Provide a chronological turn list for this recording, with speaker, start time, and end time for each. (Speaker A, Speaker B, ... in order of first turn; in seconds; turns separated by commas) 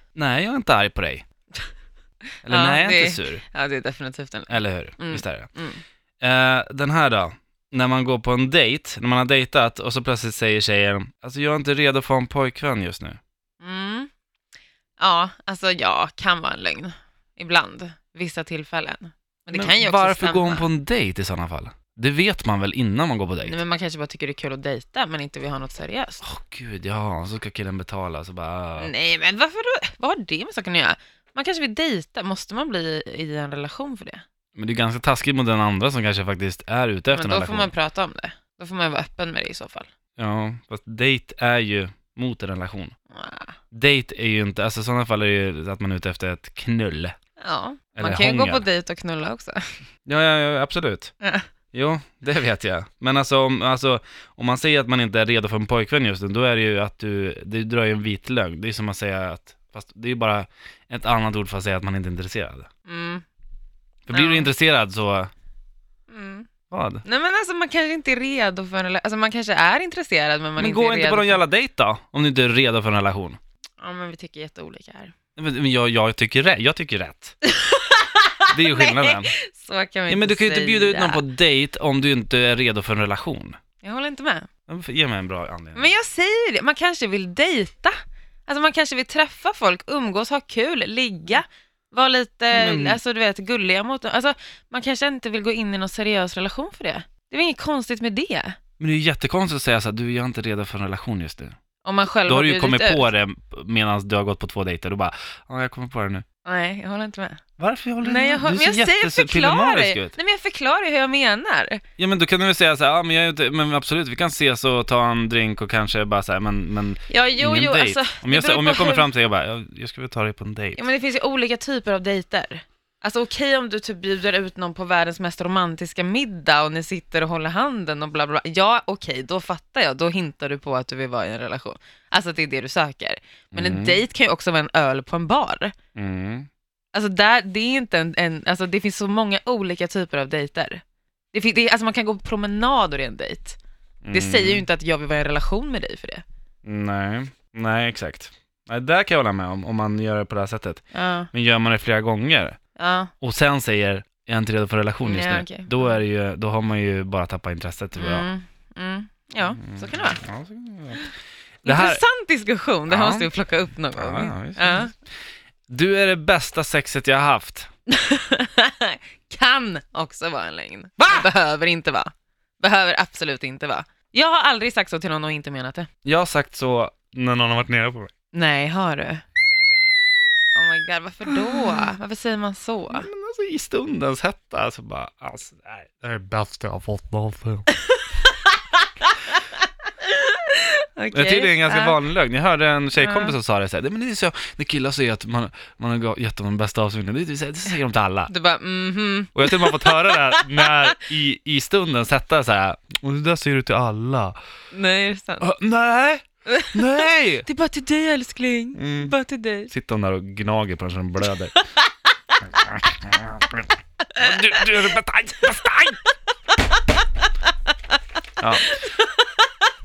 Speaker A: 0.1-1.3, Speaker A: 2.4-3.4, Speaker B: 2.5-5.8, Speaker A: 4.5-5.5, Speaker A: 6.2-13.2, Speaker B: 13.6-14.1, Speaker B: 15.0-20.7, Speaker A: 19.5-23.6, Speaker B: 23.4-26.2, Speaker A: 26.2-28.9, Speaker B: 28.8-34.2, Speaker A: 34.5-37.7, Speaker B: 37.1-39.9, Speaker A: 40.2-42.9, Speaker B: 43.1-43.5, Speaker A: 43.7-47.1, Speaker B: 47.4-49.6, Speaker A: 48.0-48.6, Speaker A: 50.1-51.1, Speaker B: 51.2-51.5, Speaker A: 51.7-62.7, Speaker B: 62.9-63.2, Speaker A: 64.1-65.3, Speaker B: 64.1-64.5, Speaker B: 66.1-66.5, Speaker A: 66.7-67.0, Speaker B: 67.0-71.4, Speaker A: 70.6-73.4, Speaker B: 73.8-75.1, Speaker A: 75.4-77.4, Speaker B: 77.4-81.2, Speaker A: 78.5-79.3, Speaker A: 80.1-83.6, Speaker B: 83.8-84.5, Speaker A: 84.7-85.9, Speaker B: 85.8-88.0, Speaker B: 88.5-98.6, Speaker A: 92.5-93.0, Speaker A: 98.8-101.6, Speaker B: 101.8-103.1, Speaker A: 102.3-106.2, Speaker B: 106.5-107.4, Speaker A: 107.6-110.2, Speaker B: 108.0-111.8, Speaker A: 112.0-120.8, Speaker B: 117.1-119.1, Speaker B: 120.8-135.8, Speaker A: 133.5-134.0, Speaker A: 136.0-136.5, Speaker B: 136.9-140.8, Speaker B: 141.3-143.6, Speaker A: 144.0-144.7, Speaker B: 144.1-146.2, Speaker A: 146.6-152.6, Speaker B: 150.9-151.3, Speaker B: 152.8-153.1, Speaker A: 153.2-158.3, Speaker B: 155.0-155.9, Speaker B: 158.0-160.2, Speaker A: 159.6-161.1, Speaker A: 161.6-162.0, Speaker B: 161.6-164.9, Speaker A: 162.9-163.3, Speaker A: 163.9-164.9, Speaker A: 165.7-167.7, Speaker B: 167.9-175.9, Speaker A: 176.1-178.1, Speaker B: 178.3-179.2, Speaker B: 180.6-183.1, Speaker A: 181.3-181.8, Speaker A: 182.9-187.7, Speaker B: 187.8-189.5, Speaker B: 190.0-192.0, Speaker A: 191.1-198.3, Speaker B: 193.0-193.3, Speaker B: 198.3-201.0, Speaker A: 199.3-204.4, Speaker B: 204.7-205.5, Speaker A: 205.4-207.5, Speaker B: 206.5-206.9, Speaker B: 207.4-209.7, Speaker A: 208.8-209.1, Speaker A: 209.7-211.6, Speaker A: 212.5-216.0, Speaker B: 214.2-214.6, Speaker A: 218.4-218.8, Speaker B: 218.8-219.5